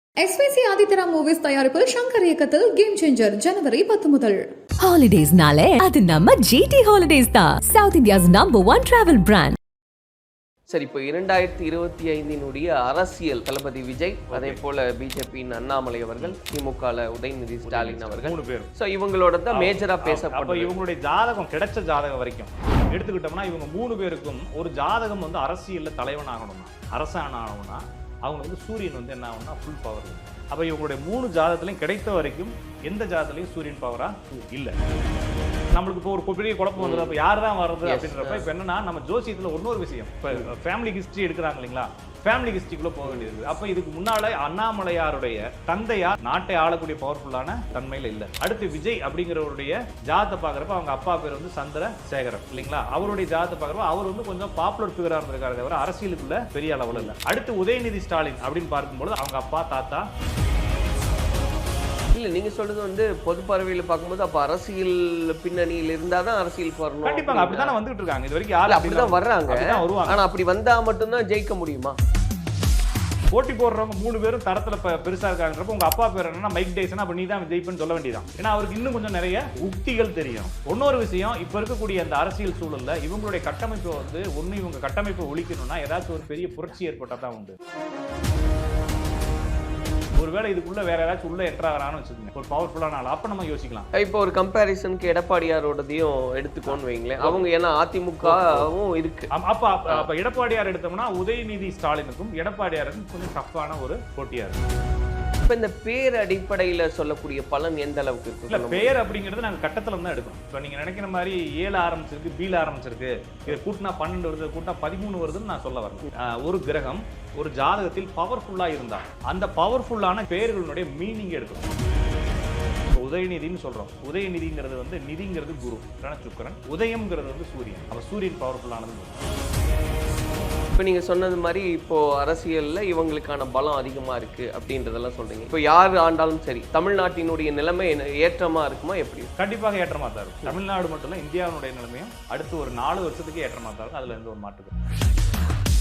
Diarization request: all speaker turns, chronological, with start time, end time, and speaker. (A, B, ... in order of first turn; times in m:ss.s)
0:00.2-0:04.4 A
0:04.8-0:09.6 B
0:10.7-0:20.7 C
0:14.3-0:14.6 D
0:17.6-0:18.7 D
0:19.5-0:34.7 D
0:35.7-1:00.1 D
0:36.8-0:37.2 C
0:37.8-0:38.5 C
0:43.0-0:43.3 C
1:02.1-1:07.8 C
1:07.0-1:10.2 D
1:08.7-1:12.0 C
1:13.3-1:27.6 D
1:30.2-1:33.9 D
1:34.0-1:39.3 C
1:36.6-1:37.4 D
1:38.2-1:38.7 D
1:39.3-1:44.6 D
1:45.4-1:48.9 C
1:48.5-2:01.7 D
2:02.9-2:09.2 D
2:10.8-2:19.3 C
2:19.4-2:24.7 D